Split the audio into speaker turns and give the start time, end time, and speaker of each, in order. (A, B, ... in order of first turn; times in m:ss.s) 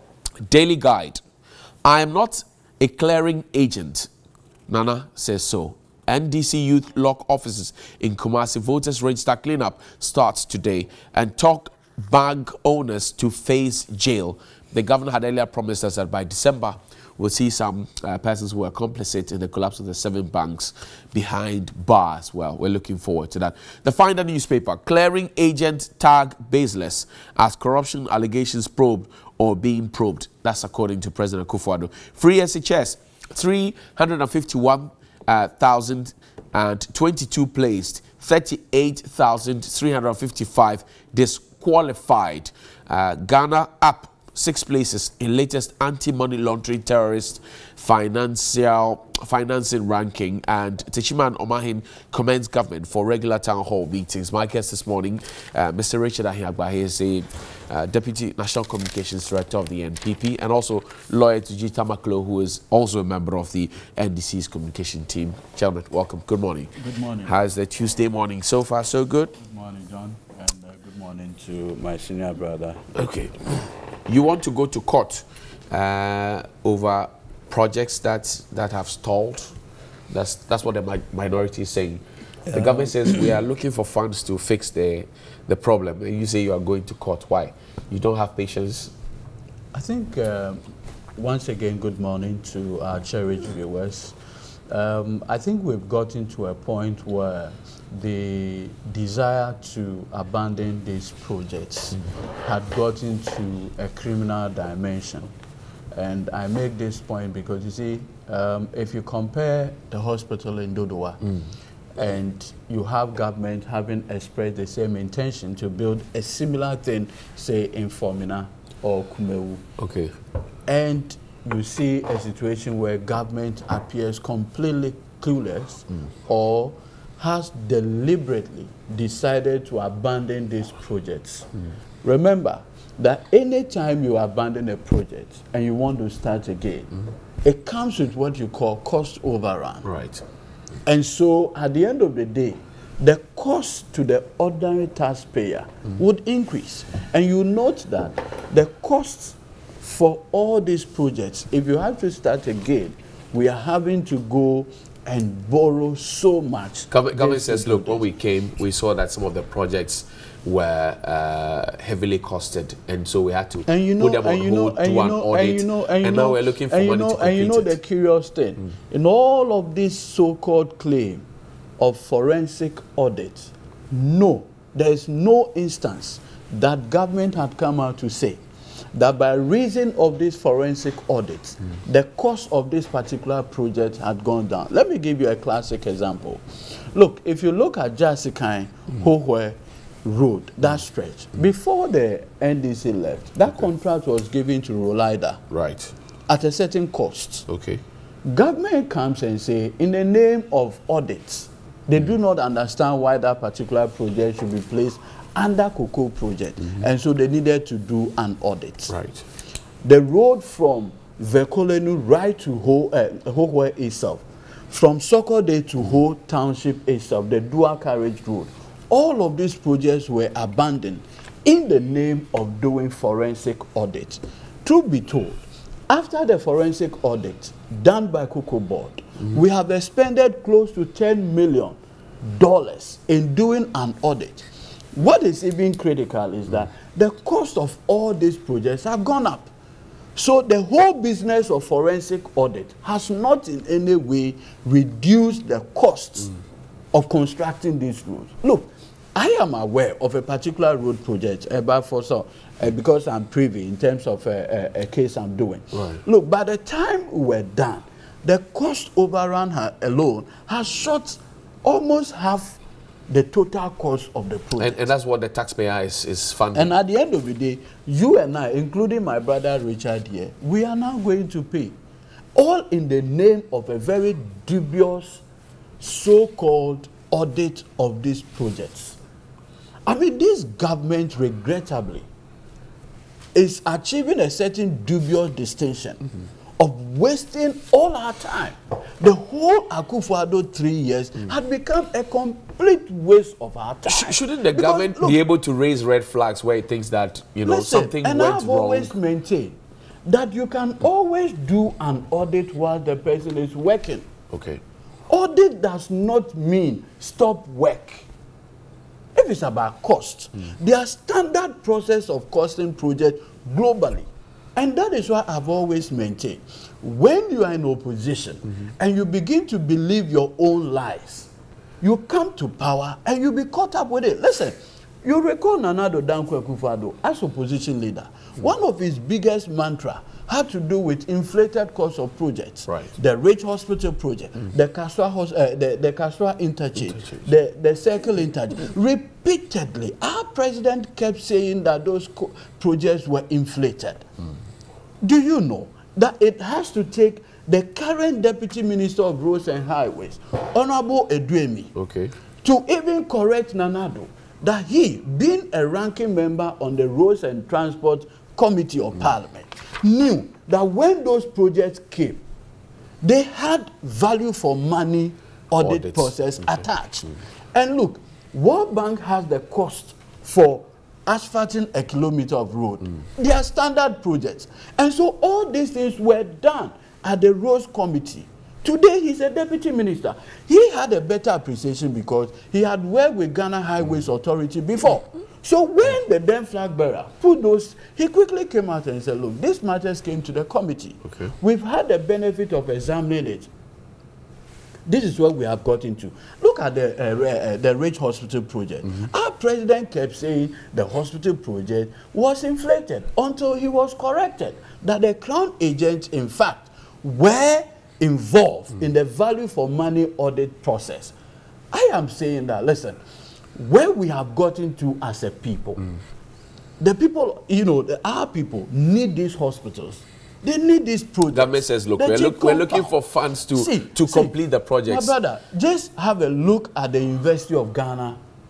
0:00.4-0:01.2 A
0:01.8-0:04.1 A
0:04.7-1:06.7 A
1:06.8-1:07.3 B
1:07.2-1:09.3 A
1:09.4-1:12.8 B
1:12.9-1:19.5 A
1:20.1-1:28.9 A
1:22.5-1:23.0 B
1:29.7-1:30.6 B
1:31.2-1:34.2 B
1:34.7-1:45.3 B
1:45.9-1:51.2 B
1:52.0-1:59.6 B
1:59.8-2:00.1 A
2:00.7-2:11.5 B
2:12.0-2:16.9 B
2:17.4-2:19.9 B
2:19.8-2:20.2 A
2:20.8-2:38.0 B
2:36.9-2:47.8 A
2:43.6-2:51.2 B
2:51.8-2:58.4 B
2:58.9-3:15.4 B
3:15.5-3:15.9 A
3:16.3-3:17.5 B
3:17.5-3:17.8 A
3:18.2-3:28.9 B
3:28.9-3:29.2 A
3:29.8-3:59.5 B
4:00.2-4:06.3 B
4:06.9-4:22.6 B
4:15.7-4:16.0 A
4:23.1-4:24.9 B
4:24.6-4:26.7 A
4:26.6-4:31.8 B
4:32.4-4:35.2 B
4:35.8-4:39.0 B
4:39.9-4:42.1 B
4:43.3-4:46.0 B
4:46.6-4:55.2 B
4:53.9-4:58.9 A
4:57.4-5:04.1 B
5:04.3-5:04.6 A
5:05.1-5:08.1 B
5:09.2-5:21.3 B
5:21.8-5:44.0 B
5:45.0-5:51.7 B
5:51.8-5:52.1 A
5:52.4-6:02.2 B
6:03.0-6:33.5 B
6:05.6-6:06.1 A
6:34.9-6:51.1 B
6:51.7-6:53.0 B
6:53.6-6:55.9 B
6:56.8-7:02.9 B
7:01.3-7:05.1 A
7:03.5-7:04.4 B
7:04.9-7:08.2 B